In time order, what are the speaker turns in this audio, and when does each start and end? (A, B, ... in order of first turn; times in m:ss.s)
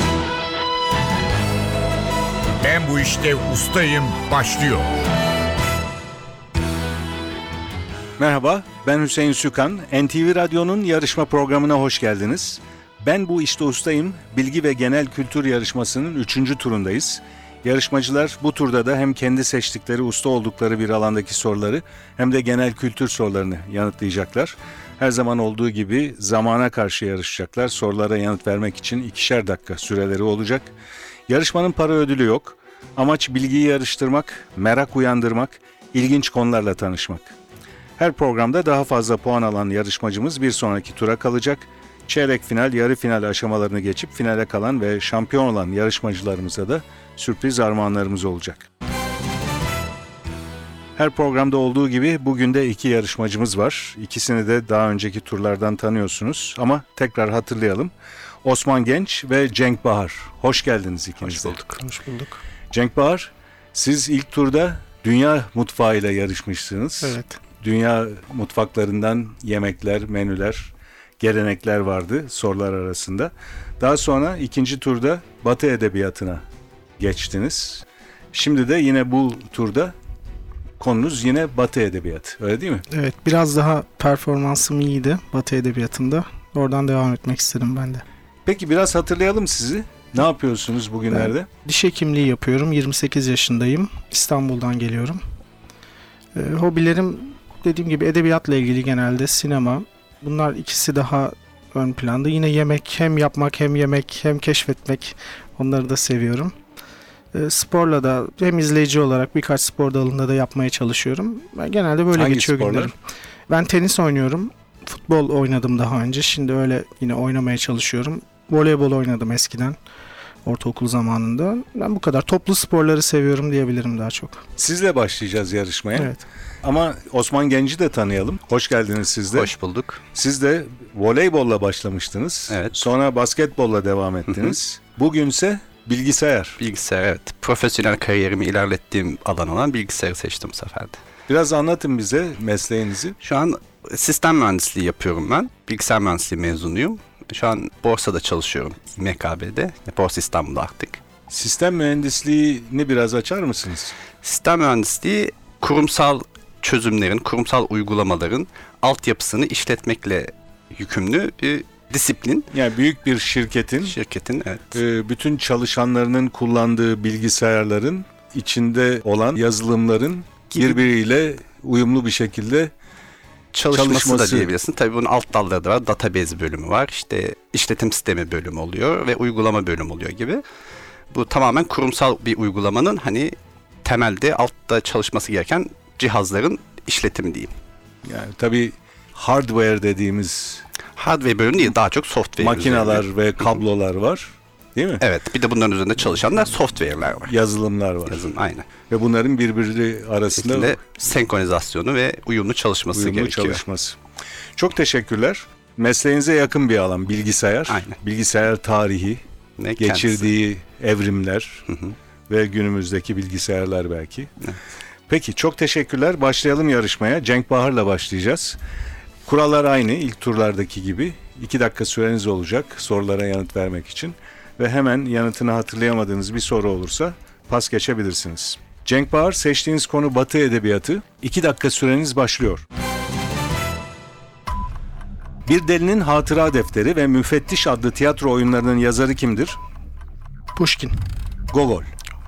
0:02.6-0:05.0 A
0:08.2-0:30.7 B
0:31.3-0:37.3 B
0:38.0-0:48.7 B
0:51.0-0:57.9 B
0:58.4-1:01.6 B
1:01.7-1:02.4 C
1:02.7-1:16.4 B
1:07.0-1:07.4 C
1:17.0-1:19.9 B
1:20.8-1:22.8 B
1:22.9-1:28.0 C
1:28.4-1:31.5 B
1:31.1-1:35.2 C
1:36.4-1:46.5 C
1:47.3-1:52.9 C
1:52.1-1:52.9 B
1:53.5-1:59.8 C
2:00.4-2:04.4 C
2:04.6-2:09.5 B
2:09.3-2:10.0 D
2:10.1-2:16.6 B
2:12.5-2:12.8 D
2:16.6-2:21.0 D
2:21.3-2:23.2 B
2:23.2-2:31.0 D
2:31.3-2:33.9 B
2:34.2-2:42.5 D
2:42.5-2:43.9 B
2:43.8-2:44.8 D
2:44.7-2:52.7 B
2:53.5-3:00.4 D
2:53.7-2:54.5 B
3:01.1-3:07.5 D
3:08.0-3:10.6 B
3:10.9-3:13.0 D
3:12.4-3:15.0 B
3:15.0-3:17.3 D
3:17.2-3:18.2 B
3:18.1-3:18.7 D
3:18.9-3:20.8 B
3:20.3-3:23.6 D
3:22.9-3:24.0 B
3:24.6-3:29.2 B
3:27.7-3:28.0 D
3:29.6-3:30.3 D
3:29.8-3:31.6 B
3:31.7-3:31.9 D
3:32.3-3:34.3 B
3:35.1-3:38.6 B
3:39.2-3:52.6 B
3:55.4-3:59.6 B
4:00.6-4:01.0 C
4:01.5-4:01.9 B